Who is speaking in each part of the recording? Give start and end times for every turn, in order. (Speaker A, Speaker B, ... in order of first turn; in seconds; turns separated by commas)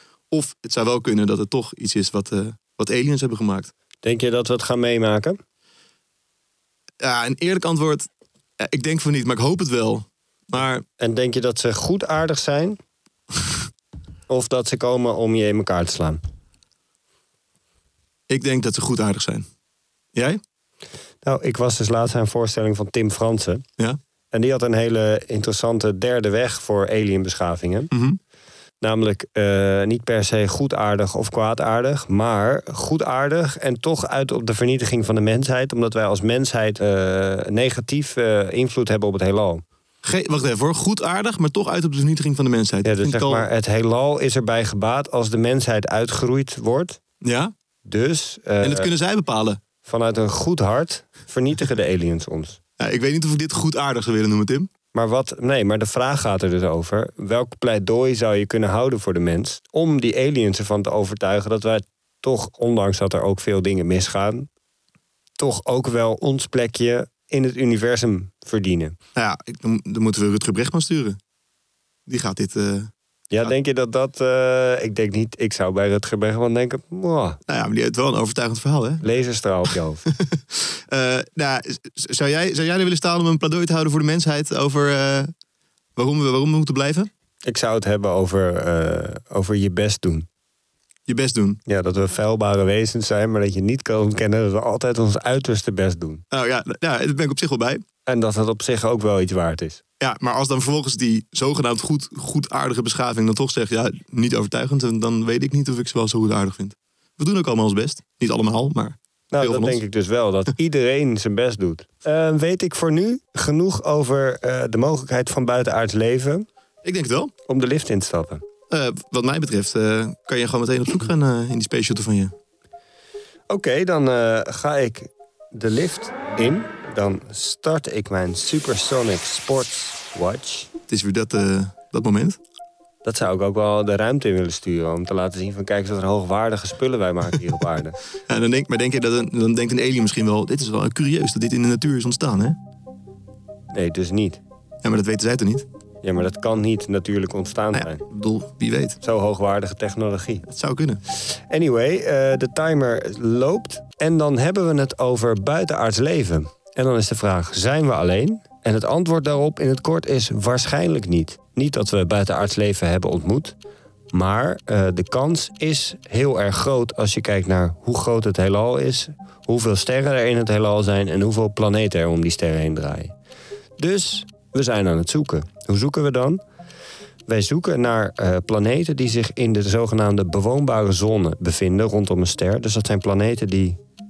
Speaker A: 0.3-3.7, Speaker B: 4.0-5.4, Speaker A: 7.0-8.1, Speaker A: 8.6-10.8, Speaker B: 11.0-12.8, Speaker B: 14.3-16.2, Speaker A: 18.3-19.4, Speaker A: 20.1-20.4, Speaker B: 21.2-23.6, Speaker B: 24.3-27.9, Speaker A: 27.9-28.2, Speaker B: 28.8-39.6, Speaker A: 40.0-43.5, Speaker B: 42.8-47.0, Speaker A: 47.2-47.5, Speaker B: 47.8-48.9, Speaker A: 48.6-49.6, Speaker B: 49.8-52.6, Speaker A: 52.8-54.7, Speaker B: 54.9-64.5, Speaker B: 65.4-69.0, Speaker A: 69.2-71.2, Speaker A: 72.1-73.5, Speaker B: 73.3-77.4, Speaker A: 77.5-79.0, Speaker B: 79.0-80.0, Speaker A: 80.1-85.3, Speaker A: 86.0-87.1, Speaker B: 87.5-90.2, Speaker A: 91.1-91.6, Speaker B: 91.7-96.2, Speaker A: 96.3-97.8, Speaker B: 98.1-99.8, Speaker A: 100.0-109.8, Speaker B: 109.3-116.5, Speaker A: 116.8-117.3, Speaker B: 117.5-118.4, Speaker A: 118.7-122.3, Speaker B: 123.5-130.7, Speaker A: 130.9-132.4, Speaker B: 133.0-138.0, Speaker A: 138.3-142.6, Speaker B: 143.7-144.4, Speaker A: 144.8-145.7, Speaker B: 146.0-148.0, Speaker A: 147.7-149.0, Speaker B: 149.0-150.4, Speaker A: 150.5-151.0, Speaker B: 151.2-163.5, Speaker B: 164.1-173.1, Speaker B: 173.8-176.4, Speaker B: 177.3-183.8